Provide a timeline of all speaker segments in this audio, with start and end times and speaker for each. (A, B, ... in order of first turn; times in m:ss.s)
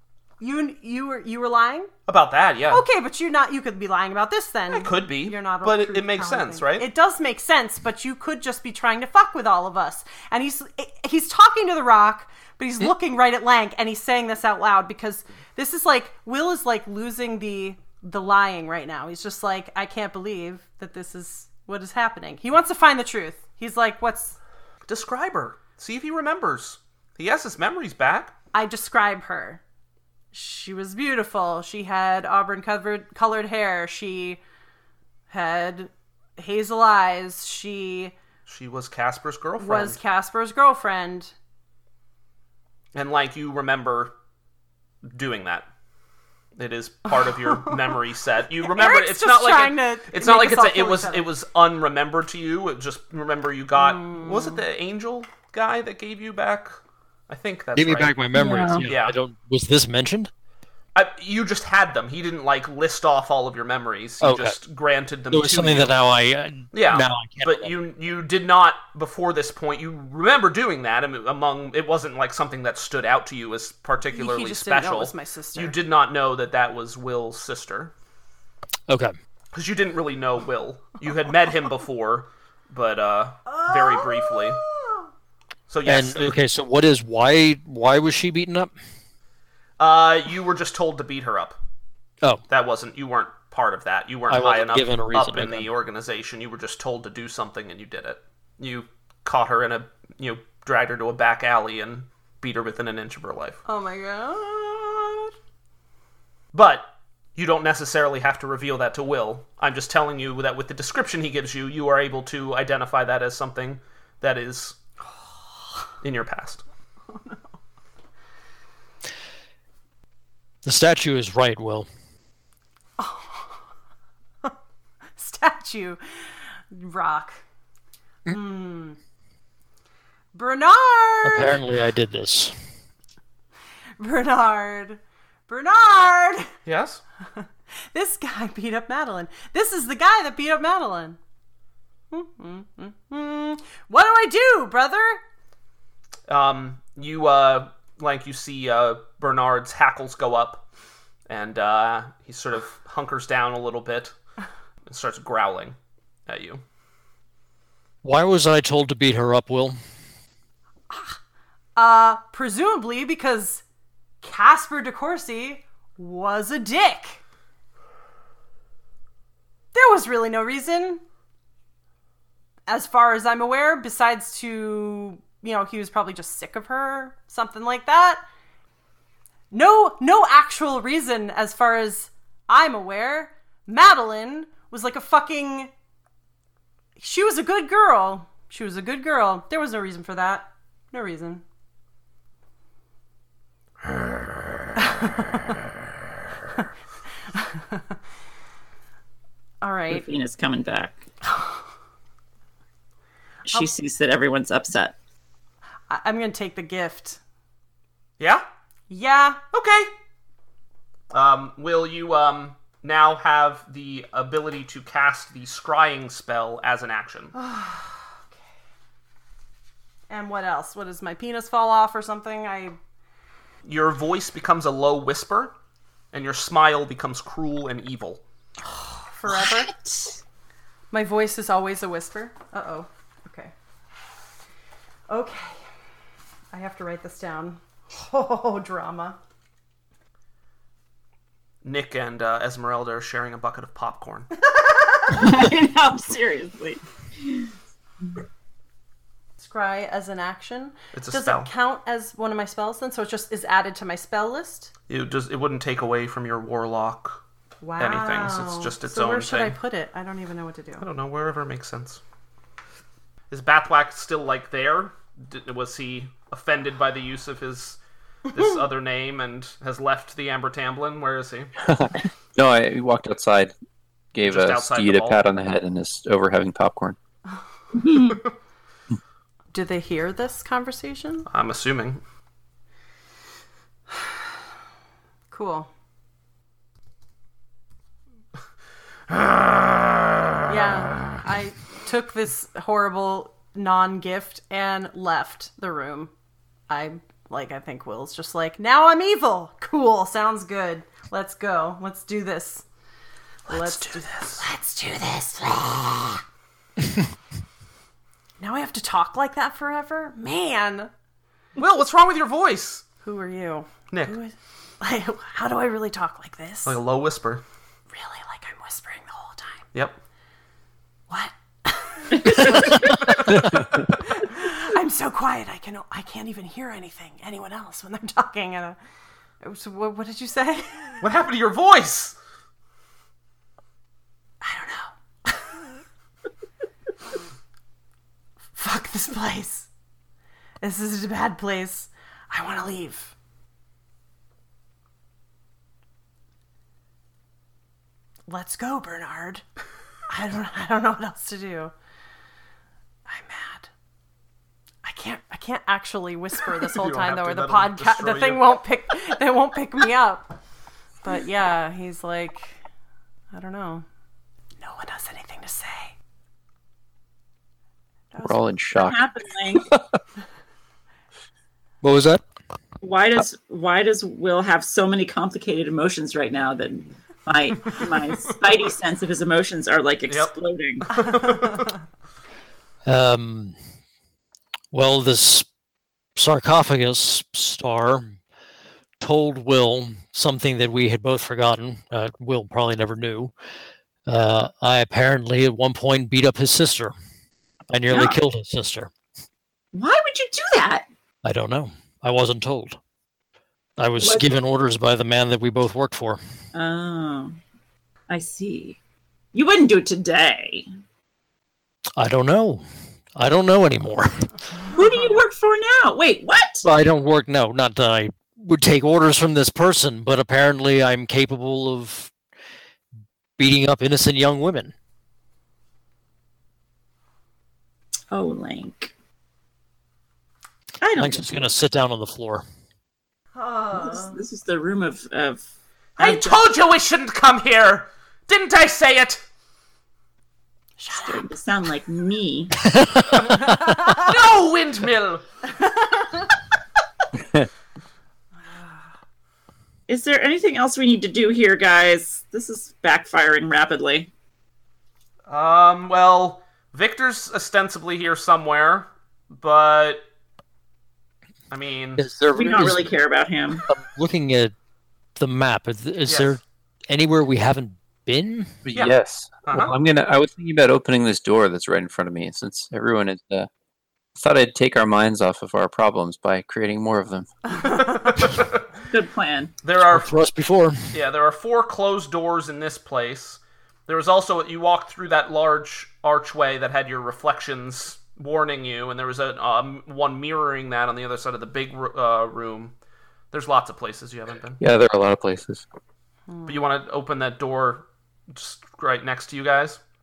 0:00.4-0:01.9 A
0:02.1-0:02.8 B
0:02.7-0:24.4 A
0:04.7-0:06.9 B
0:24.8-0:28.3 B
0:28.5-0:29.6 A
0:30.3-0:34.4 A
0:35.3-0:38.1 A
0:38.4-0:40.0 B
0:39.6-0:41.3 A
0:42.9-0:44.1 B
0:45.0-0:45.7 B
0:46.6-0:56.8 B
0:47.3-0:47.8 A
0:48.6-0:51.3 A
0:53.8-0:54.6 A
0:57.3-0:58.1 B
0:57.8-1:00.3 C
0:58.3-0:58.9 D
0:58.8-0:59.2 B
1:00.9-1:05.9 B
1:04.2-1:04.6 C
1:05.3-1:07.7 C
1:06.7-1:17.9 B
1:14.1-1:15.8 A
1:18.9-1:19.1 C
1:19.5-1:24.6 B
1:23.4-1:25.1 A
1:25.7-1:26.4 B
1:25.8-1:28.7 C
1:29.8-1:31.6 B
1:32.5-1:43.6 B
1:34.3-1:35.7 C
1:43.6-1:45.3 A
1:46.5-1:54.8 B
1:56.0-1:56.6 B
2:00.6-2:01.9 C
2:03.0-2:03.6 A
2:05.2-2:07.4 A
2:08.3-2:09.0 A
2:10.3-2:11.6 A
2:11.2-2:12.5 C
2:14.0-2:16.5 A
2:16.6-2:17.0 B
2:17.4-2:21.2 A
2:22.1-2:25.2 A
2:26.3-2:30.6 B
2:31.3-2:34.1 B
2:34.8-2:36.6 B
2:38.0-2:39.8 C
2:40.9-2:41.2 A
2:41.8-2:43.6 A
2:44.2-2:47.2 A
2:49.7-2:51.0 A
2:52.7-2:58.2 A
2:59.5-3:05.7 A
3:07.0-3:11.4 A
3:14.8-3:15.4 A
3:17.3-3:17.8 A
3:19.6-3:20.1 A
3:19.9-3:21.0 D
3:23.5-3:24.9 D
3:25.9-3:27.2 A
3:28.2-3:28.4 B
3:28.9-3:29.4 A
3:29.5-3:29.9 B
3:31.1-3:37.3 B
3:37.3-3:38.1 A
3:40.1-3:42.8 A
3:43.6-3:45.5 B
3:46.1-3:48.2 B
3:48.7-3:49.7 A
3:49.4-3:50.1 D
3:50.9-3:53.5 A
3:55.1-3:55.6 A
3:56.5-3:59.2 A
4:01.6-4:04.3 B
4:04.4-4:05.3 A
4:05.1-4:07.5 D
4:09.4-4:14.7 A
4:10.9-4:11.5 B
4:14.9-4:17.2 B
4:17.6-4:20.8 A
4:17.8-4:19.6 B
4:20.8-4:22.0 B
4:23.3-4:27.8 B
4:28.3-4:31.5 B
4:31.6-4:33.5 E
4:34.1-4:37.0 E
4:34.2-4:35.2 B
4:37.8-4:38.2 D
4:39.5-4:41.3 A
4:41.3-4:42.0 B
4:45.3-4:45.7 A
4:49.1-4:50.4 B
4:50.5-4:56.1 A
4:56.7-5:02.6 A
5:03.5-5:06.2 A
5:03.5-5:04.4 B
5:08.4-5:10.9 A
5:11.6-5:12.8 B
5:13.0-5:16.8 A
5:13.9-5:14.2 B
5:16.6-5:17.4 B
5:17.9-5:19.6 A
5:19.7-5:20.0 B
5:21.1-5:23.1 A
5:22.2-5:22.7 D
5:23.1-5:23.6 B
5:23.3-5:23.6 E
5:24.0-5:28.8 A
5:29.4-5:31.0 A
5:31.0-5:32.2 B
5:34.4-5:35.6 A
5:38.6-5:39.7 A
5:40.6-5:43.1 A
5:48.3-5:49.4 A
5:50.1-5:51.7 A
5:53.1-5:53.7 A
5:54.8-6:00.3 A
5:56.6-5:58.6 B
6:01.0-6:02.6 A
6:03.3-6:03.8 A
6:04.6-6:05.9 A
6:08.1-6:08.9 A
6:08.2-6:09.0 E
6:08.8-6:09.7 D
6:11.8-6:12.2 C
6:12.8-6:21.0 D
6:20.1-6:20.3 B
6:20.9-6:21.7 B
6:21.0-6:21.7 A
6:22.8-6:23.5 C
6:24.7-6:25.5 C
6:26.2-6:28.2 C
6:29.0-6:33.3 C
6:34.1-6:36.9 C
6:37.7-6:38.9 C
6:37.9-6:38.2 D
6:39.7-6:40.8 D
6:41.2-6:42.8 C
6:43.8-6:46.2 C
6:44.0-6:44.3 D
6:46.5-6:47.4 D
6:48.1-6:48.8 D
6:49.3-6:50.7 D
6:52.0-6:52.6 C
6:53.2-6:54.3 C
6:54.6-6:56.6 D
6:56.6-7:02.1 C
7:03.4-7:04.7 C
7:08.1-7:08.9 D
7:10.8-7:11.5 D
7:11.0-7:12.4 C
7:13.3-7:14.2 A
7:13.7-7:15.4 D
7:16.0-7:16.4 D
7:16.0-7:19.2 B
7:20.8-7:21.3 A
7:20.9-7:22.6 D
7:22.6-7:23.7 C
7:23.3-7:24.1 A
7:24.0-7:25.2 B
7:25.6-7:26.3 A
7:27.2-7:27.5 E
7:29.9-7:34.1 D
7:35.3-7:40.0 B
7:41.5-7:42.0 B
7:42.0-7:42.9 C
7:42.3-7:43.6 D
7:43.7-7:44.5 C
7:45.2-7:48.6 C
7:46.0-7:46.4 B
7:48.6-7:53.5 E
7:49.4-7:49.7 B
7:54.1-7:57.8 E
7:57.7-7:58.6 B
7:58.9-7:59.5 D
7:59.6-8:00.1 B
7:59.9-8:00.9 C
8:00.9-8:12.7 B
8:13.3-8:14.6 B
8:14.6-8:15.6 E
8:16.5-8:19.8 B